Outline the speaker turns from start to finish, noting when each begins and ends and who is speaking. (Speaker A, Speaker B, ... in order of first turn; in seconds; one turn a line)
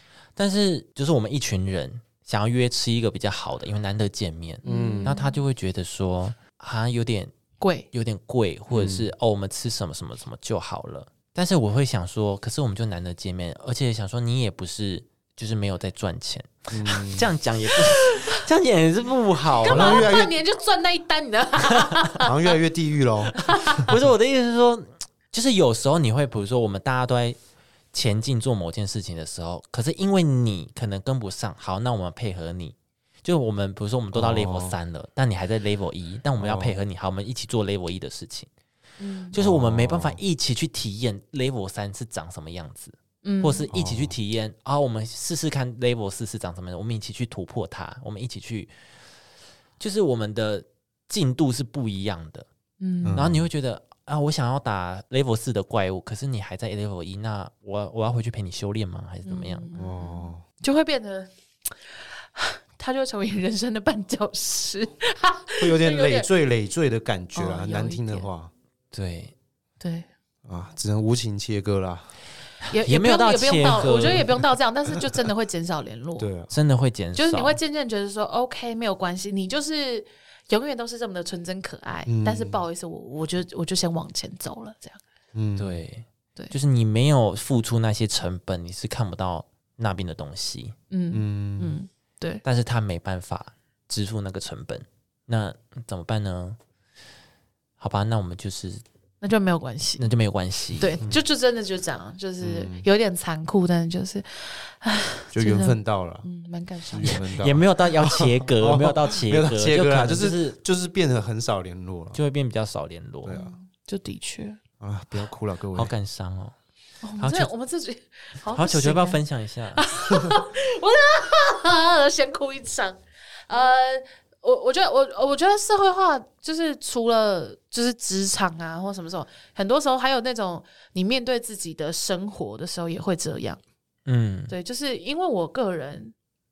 Speaker A: 0.4-7.3
Speaker B: 4.6-5.2
Speaker C: 4.6-5.4
Speaker C: 7.6-7.9
Speaker A: 7.9-20.1
Speaker B: 8.7-9.1
Speaker B: 16.7-17.3
Speaker C: 19.6-22.3
Speaker B: 19.6-20.4
Speaker B: 22.2-23.9
Speaker C: 23.4-23.9
Speaker A: 23.9-27.4
Speaker A: 27.9-38.5
Speaker B: 34.1-34.8
Speaker B: 36.4-36.8
Speaker C: 39.0-39.4
Speaker A: 39.3-48.7
Speaker B: 39.4-40.2
Speaker C: 43.2-43.7
Speaker B: 43.7-44.1
Speaker A: 49.8-52.5
Speaker C: 52.8-53.3
Speaker B: 53.0-53.5
Speaker A: 53.1-59.7
Speaker C: 59.2-66.3
Speaker B: 59.8-60.4
Speaker B: 65.6-68.5
Speaker C: 67.3-68.3
Speaker A: 68.9-69.3
Speaker C: 69.8-70.1
Speaker B: 70.5-72.1
Speaker C: 72.7-76.3
Speaker A: 72.9-74.3
Speaker B: 76.2-76.5
Speaker A: 76.5-77.6
Speaker C: 77.2-85.0
Speaker B: 82.1-82.6
Speaker B: 85.3-85.8
Speaker A: 85.6-90.8
Speaker C: 90.9-92.4
Speaker B: 91.1-91.8
Speaker A: 92.4-96.6
Speaker A: 97.8-98.8
Speaker C: 99.2-100.0
Speaker A: 100.0-101.0
Speaker C: 100.8-107.2
Speaker B: 102.4-102.9
Speaker B: 105.3-106.3
Speaker B: 106.9-112.2
Speaker A: 107.0-110.6
Speaker A: 112.2-113.4
Speaker B: 113.2-113.5
Speaker C: 113.3-114.6
Speaker B: 114.8-115.9
Speaker A: 115.7-116.5
Speaker C: 117.0-119.2
Speaker A: 117.2-117.5
Speaker A: 118.5-119.8
Speaker C: 119.8-133.6
Speaker A: 134.1-134.5
Speaker C: 134.5-136.1